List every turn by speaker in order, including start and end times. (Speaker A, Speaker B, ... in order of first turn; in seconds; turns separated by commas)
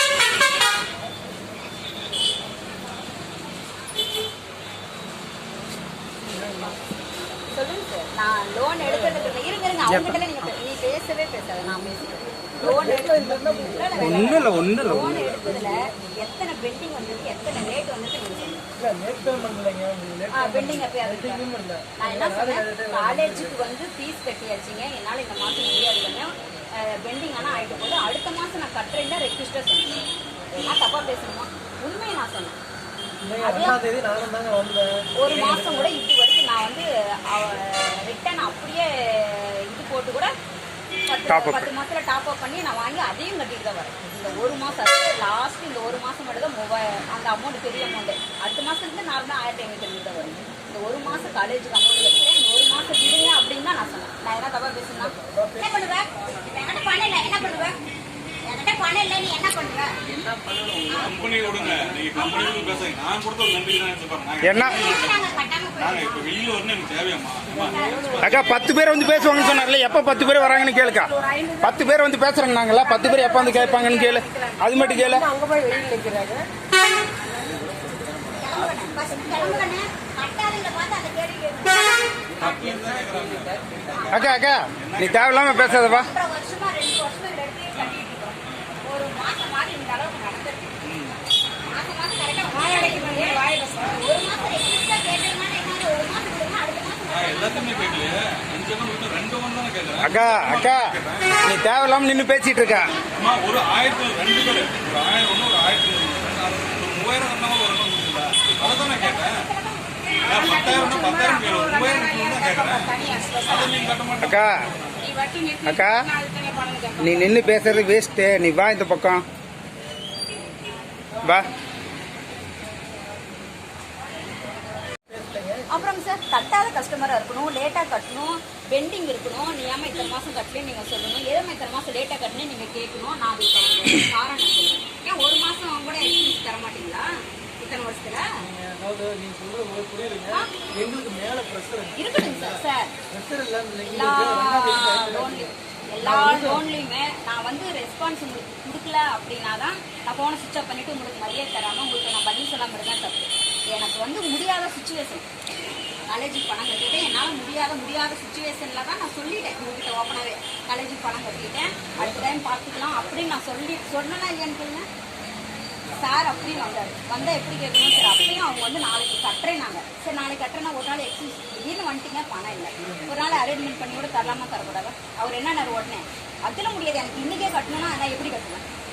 Speaker A: 6.3-6.7, Speaker B: 7.5-18.6, Speaker A: 8.8-9.2, Speaker C: 9.8-10.4, Speaker A: 12.6-14.6, Speaker C: 14.0-15.2, Speaker A: 15.3-15.7, Speaker A: 18.8-23.6, Speaker B: 20.3-21.4, Speaker B: 22.0-30.0, Speaker B: 30.6-32.6, Speaker A: 33.2-35.9, Speaker B: 33.4-33.8, Speaker B: 35.2-40.3, Speaker B: 41.1-57.8, Speaker C: 41.3-41.7, Speaker A: 55.2-55.7, Speaker B: 58.5-59.9, Speaker D: 60.9-68.5, Speaker B: 62.1-62.9, Speaker C: 64.4-64.8, Speaker B: 64.5-66.3, Speaker B: 67.6-68.3, Speaker A: 67.7-68.7, Speaker C: 68.2-71.1, Speaker B: 68.9-72.0, Speaker C: 71.6-75.3, Speaker B: 72.7-74.9, Speaker A: 74.8-76.4, Speaker B: 75.6-75.9, Speaker B: 78.3-82.3, Speaker D: 82.3-86.0, Speaker B: 83.9-84.5, Speaker C: 84.1-86.1, Speaker B: 85.6-90.8, Speaker D: 87.7-88.7, Speaker D: 90.8-91.1, Speaker B: 91.6-98.1, Speaker D: 97.1-101.4, Speaker C: 100.0-100.9, Speaker C: 101.4-102.9, Speaker B: 102.6-103.1, Speaker D: 103.1-109.5, Speaker B: 108.5-113.8, Speaker D: 110.2-112.9, Speaker D: 113.5-114.5, Speaker C: 114.2-114.6, Speaker B: 114.9-117.7, Speaker C: 115.7-116.0, Speaker C: 117.0-119.2, Speaker C: 121.2-121.5, Speaker A: 125.1-125.8, Speaker B: 125.7-138.3, Speaker A: 138.4-146.6, Speaker B: 142.0-142.9, Speaker B: 143.8-155.2, Speaker B: 156.1-164.8, Speaker B: 166.0-178.6